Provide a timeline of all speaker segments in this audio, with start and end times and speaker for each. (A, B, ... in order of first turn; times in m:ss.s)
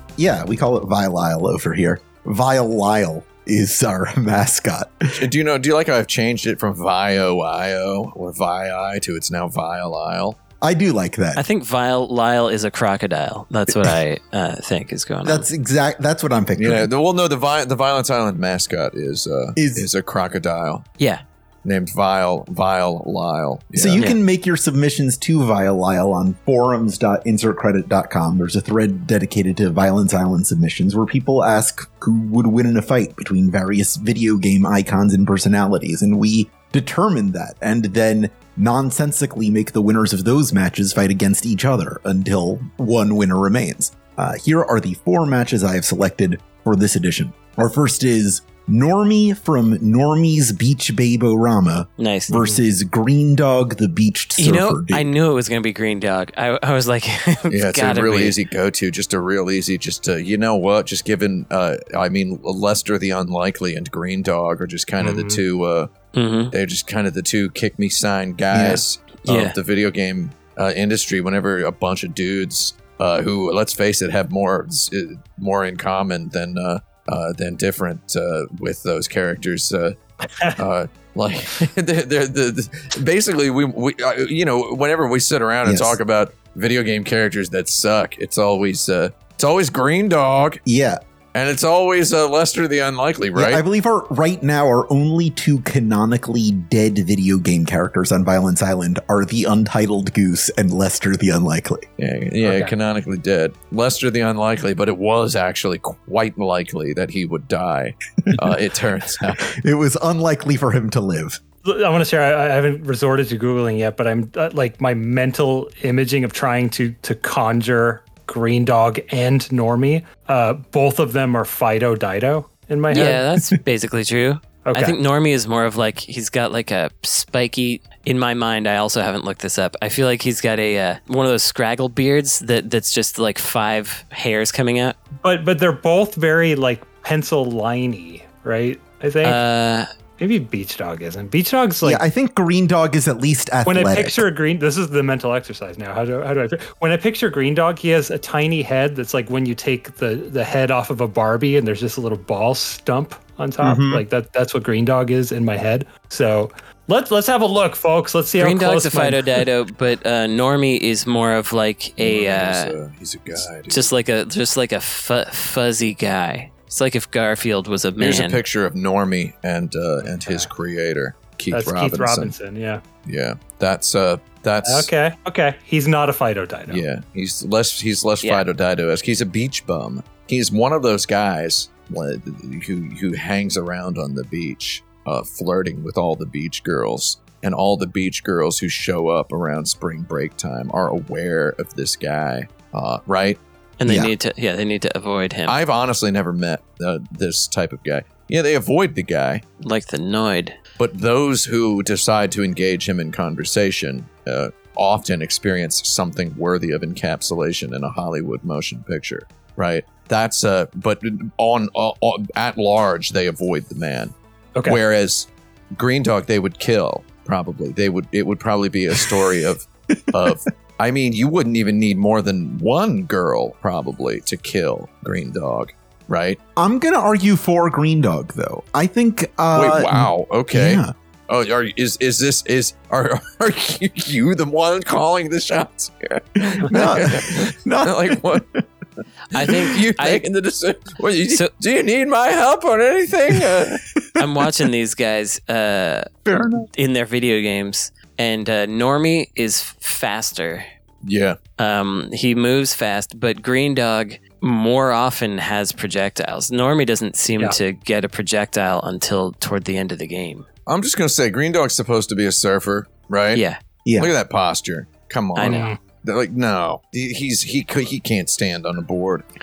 0:00.2-0:05.3 A
0:05.2-0:10.4 B
0:10.6-0:11.4 A
0:11.4-0:15.5 C
0:15.2-0:16.9 A
0:16.6-0:20.9 B
0:19.6-0:19.9 A
0:21.6-0:24.0 B
0:23.7-0:55.1 A
0:52.0-0:52.4 C
0:54.4-0:58.4 C
0:57.5-1:05.9 B
1:05.0-1:05.4 D
1:06.1-1:06.5 C
1:06.5-1:20.0 B
1:08.5-1:08.8 A
1:09.2-1:09.6 C
1:20.5-1:30.6 B
1:25.6-1:26.0 A
1:30.6-1:31.0 A
1:31.3-1:33.6 B
1:33.4-1:41.8 A
1:42.0-1:49.5 B
1:42.4-1:42.7 D
1:48.2-1:48.5 A
1:49.5-1:51.4 A
1:51.6-2:03.2 D
2:02.9-2:15.0 C
2:04.6-2:05.0 D
2:15.2-2:19.4 D
2:19.2-2:19.9 C
2:20.2-2:22.0 D
2:21.8-2:24.3 A
2:23.6-2:39.4 D
2:33.6-2:34.1 A
2:38.4-2:42.8 C
2:42.0-2:43.9 B
2:43.7-2:48.4 C
2:48.0-2:52.4 B
2:50.0-2:50.5 D
2:51.5-2:52.8 D
2:53.0-2:54.9 B
2:54.6-2:56.8 D
2:56.7-3:13.4 B
3:13.8-3:15.6 C
3:13.8-3:14.1 A
3:15.5-3:19.4 B
3:19.6-3:20.6 C
3:20.8-3:34.1 B
3:34.6-3:46.4 B
3:46.6-3:50.9 A
3:49.5-3:58.5 B
3:56.4-3:58.6 A
3:59.3-4:00.2 C
3:59.4-4:04.0 B
4:04.2-4:06.1 C
4:06.3-4:06.7 A
4:06.7-4:10.6 C
4:11.0-4:11.4 B
4:11.6-4:20.5 C
4:20.7-4:23.4 B
4:23.3-4:23.6 C
4:23.8-4:24.1 A
4:24.0-4:29.2 B
4:25.4-4:25.7 C
4:25.4-4:25.8 D